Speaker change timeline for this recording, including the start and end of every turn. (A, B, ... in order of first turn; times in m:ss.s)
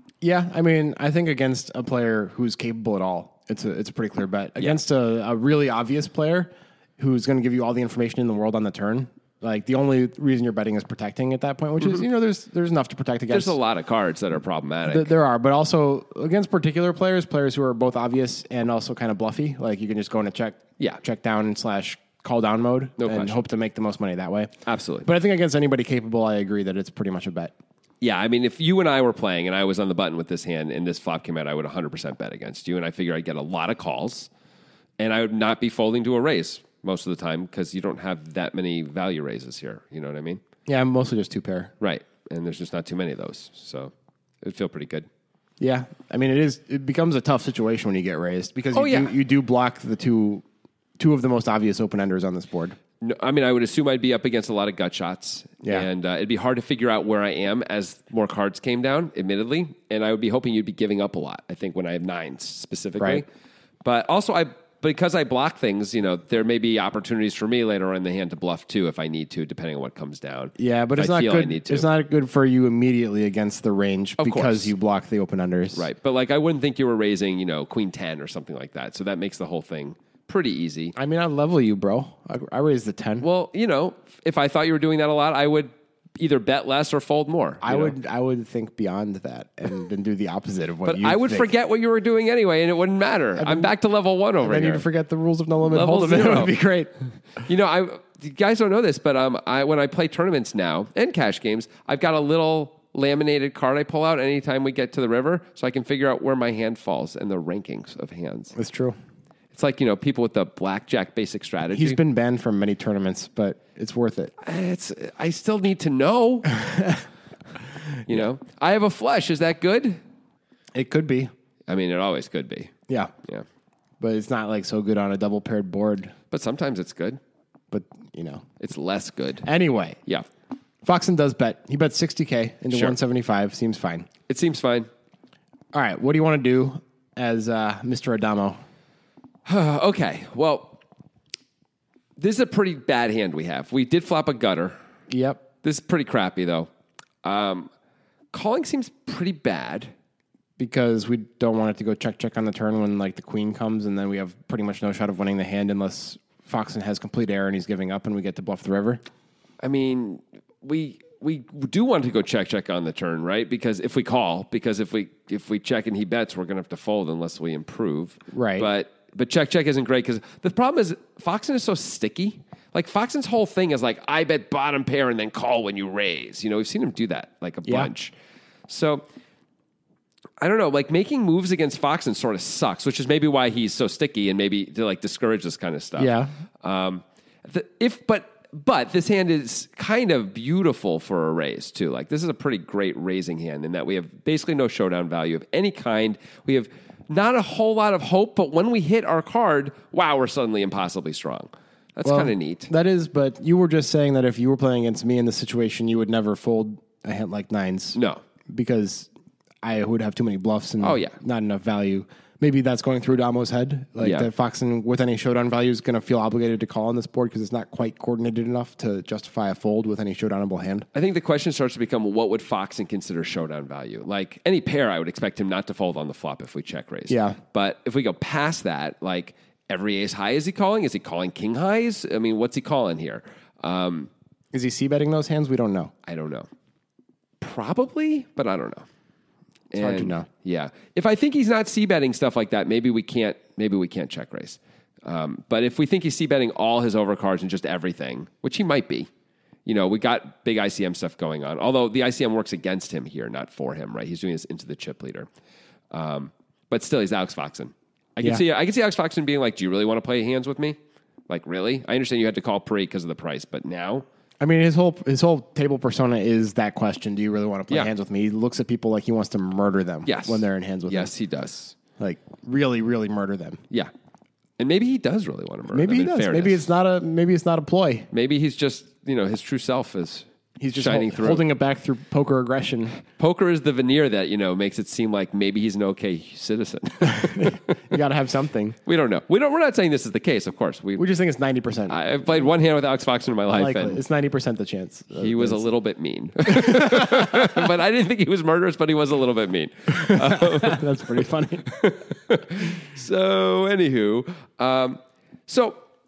0:00.2-0:13.6 A
0:13.3-0:15.1 B
0:14.8-0:24.5 A
0:23.0-0:23.4 B
0:24.6-0:25.1 B
0:25.0-0:27.5 A
0:28.0-0:34.3 B
0:35.0-0:40.4 B
0:40.6-0:41.7 A
0:41.8-0:45.1 B
0:45.6-0:50.4 A
0:48.7-0:49.1 B
0:51.0-0:52.8 A
0:53.0-1:03.3 B
1:03.0-1:03.2 A
1:03.8-1:11.9 B
1:10.6-1:15.8 A
1:14.2-1:14.7 B
1:15.7-1:20.9 B
1:21.0-1:23.2 A
1:23.2-1:27.9 B
1:27.6-1:31.5 A
1:30.8-1:34.8 B
1:33.4-1:33.7 A
1:34.4-1:36.9 A
1:35.6-1:36.5 B
1:37.4-1:48.5 B
1:48.6-1:49.0 A
1:49.5-1:52.0 B
1:51.7-1:54.3 A
1:54.4-1:56.6 B
1:56.5-1:57.0 A
1:58.1-2:00.0 B
2:00.7-2:01.3 A
2:01.7-2:02.7 B
2:04.0-2:06.1 A
2:06.3-2:07.2 B
2:07.7-2:08.4 A
2:08.6-2:09.5 B
2:09.4-2:10.0 A
2:10.8-2:14.1 A
2:12.7-2:13.0 B
2:14.3-2:14.9 B
2:15.7-2:18.6 A
2:19.4-2:20.8 B
2:22.2-2:24.8 B
2:25.1-2:25.4 A
2:25.6-2:26.7 B
2:27.2-2:27.7 B
2:28.3-2:29.9 B
2:30.6-2:39.0 A
2:39.6-2:58.1 B
2:48.3-2:48.7 A
2:57.6-2:57.9 A
2:58.7-2:59.0 B
3:00.4-3:22.7 B
3:06.0-3:06.3 A
3:22.0-3:28.0 A
3:27.9-3:28.2 B
3:28.5-3:29.1 A
3:29.6-3:40.9 A
3:30.8-3:31.2 B
3:34.0-3:34.3 B
3:40.9-3:54.1 B
3:47.1-3:47.4 A
3:54.5-3:55.9 A
3:56.0-3:56.5 B
3:57.4-3:58.8 B
3:59.7-4:09.1 B
3:59.8-4:00.3 A
4:09.6-4:15.3 B
4:15.9-4:20.8 B
4:21.3-4:24.0 B
4:24.4-4:31.1 A
4:30.0-4:31.8 B
4:32.0-4:33.6 A
4:34.6-4:36.6 B
4:35.7-4:38.1 A
4:38.1-4:41.4 B
4:40.6-4:43.0 A
4:43.1-4:47.8 B
4:47.0-4:48.8 A
4:48.8-4:51.0 B
4:51.0-4:52.0 A
4:51.9-4:54.0 B
4:53.5-4:55.6 A
4:55.2-5:00.8 B
4:56.5-4:57.6 A
4:59.9-5:01.7 A
5:01.7-5:05.8 B